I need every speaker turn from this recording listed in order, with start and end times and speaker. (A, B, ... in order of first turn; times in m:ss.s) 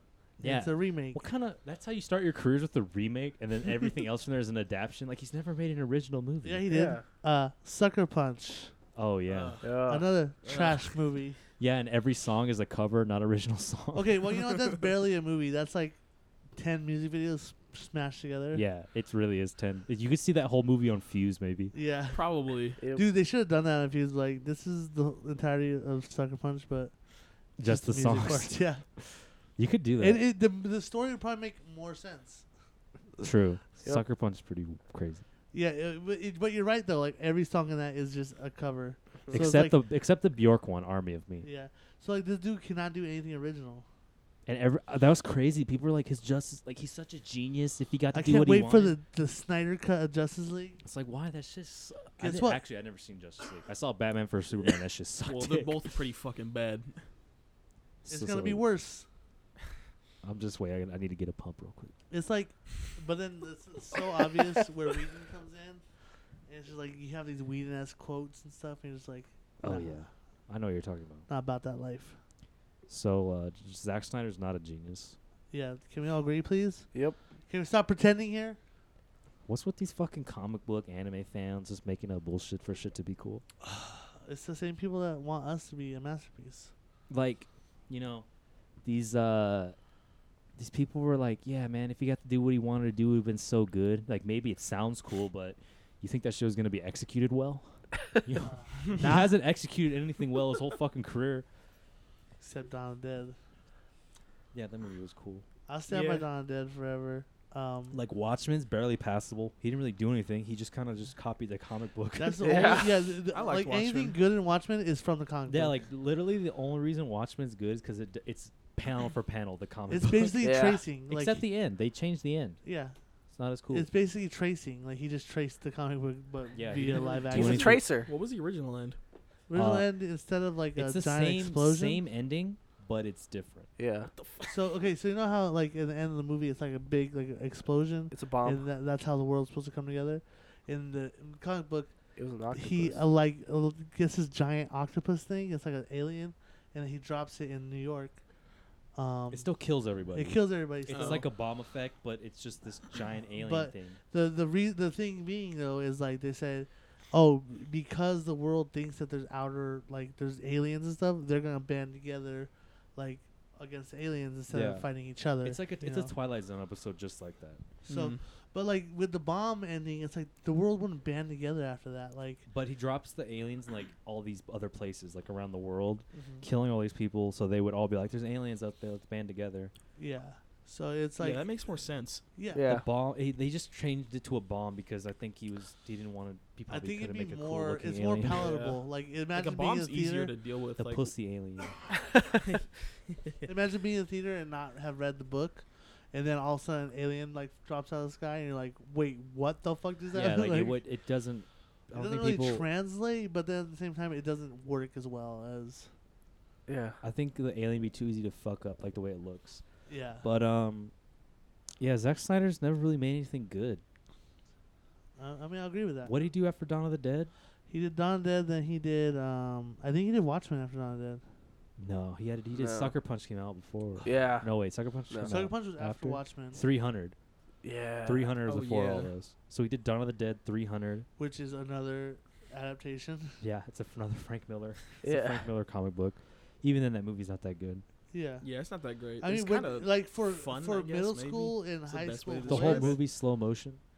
0:00.4-0:01.2 A
0:00.4-0:06.7 B
0:06.4-0:08.7 A
0:06.7-0:07.0 C
0:09.0-0:09.6 B
0:09.3-0:09.6 D
0:09.6-0:10.1 C
0:09.8-0:11.4 A
0:10.4-0:10.9 D
0:11.6-0:14.2 B
0:13.9-0:16.0 A
0:16.6-0:18.6 A
0:18.5-0:21.7 B
0:21.7-0:28.9 A
0:22.1-0:22.8 D
0:22.8-0:23.0 C
0:27.6-0:28.6 B
0:29.6-0:30.2 B
0:30.0-0:32.5 A
0:33.2-0:35.2 B
0:35.5-0:39.8 A
0:39.3-0:41.5 B
0:41.4-0:43.9 A
0:44.5-0:49.0 B
0:48.1-0:50.8 A
0:50.8-0:55.8 B
0:52.2-0:52.6 A
0:55.2-0:57.0 D
0:58.0-0:58.7 B
0:58.1-0:59.1 A
1:00.2-1:01.9 B
1:02.1-1:05.8 A
1:06.5-1:10.0 A
1:09.6-1:11.3 B
1:11.3-1:12.2 A
1:12.9-1:15.2 B
1:15.5-1:18.6 A
1:16.9-1:17.2 C
1:19.5-1:23.4 B
1:23.6-1:26.7 A
1:27.1-1:28.3 B
1:28.8-1:29.8 B
1:30.6-1:41.5 B
1:38.4-1:39.3 A
1:42.4-1:43.4 A
1:44.5-1:45.5 B
1:45.7-1:48.0 A
1:45.9-1:46.3 D
1:47.9-1:52.9 B
1:52.2-1:55.8 A
1:52.4-1:52.9 C
1:53.3-1:54.2 D
1:55.5-2:00.6 B
1:59.9-2:01.4 A
2:00.4-2:00.8 C
2:01.1-2:02.6 B
2:02.6-2:03.0 A
2:03.3-2:03.9 B
2:03.7-2:07.8 A
2:06.5-2:07.8 B
2:06.9-2:09.0 D
2:07.3-2:08.1 C
2:09.5-2:12.0 A
2:09.5-2:09.9 B
2:10.8-2:13.7 B
2:13.8-2:14.1 C
2:14.2-2:14.5 D
2:14.4-2:28.2 A
2:18.1-2:18.6 C
2:22.2-2:23.0 C
2:28.9-2:29.5 A
2:29.3-2:34.0 B
2:30.1-2:31.3 A
2:30.9-2:31.3 D
2:33.4-2:46.1 A
2:44.5-2:47.7 B
2:47.9-2:48.2 D
2:47.9-2:52.5 A
2:52.5-2:59.7 B
2:56.1-2:56.4 A
3:00.0-3:01.4 A
3:01.2-3:02.2 D
3:02.4-3:02.6 A
3:02.5-3:02.8 C
3:02.6-3:08.6 B
3:06.7-3:10.3 A
3:08.3-3:11.1 D
3:10.8-3:11.8 B
3:12.4-3:13.4 D
3:13.4-3:20.8 A
3:20.1-3:22.7 B
3:21.9-3:25.9 A
3:26.7-3:27.0 C
3:27.0-3:29.6 B
3:29.9-3:30.3 A
3:30.2-3:30.9 B
3:31.8-3:33.8 B
3:35.2-3:36.2 A
3:36.0-3:37.3 B
3:37.7-3:41.2 A
3:41.8-3:47.2 B
3:42.5-3:42.9 C
3:44.0-3:44.5 C
3:45.1-3:45.4 C
3:45.3-3:46.6 A
3:47.6-3:48.3 C
3:48.0-3:51.1 B
3:48.4-3:49.1 D
3:51.2-3:53.4 A
3:53.4-3:57.8 B
3:55.0-3:55.4 C
3:58.1-3:58.5 A
3:58.4-4:03.0 D
3:59.2-4:03.0 A
4:02.5-4:03.8 B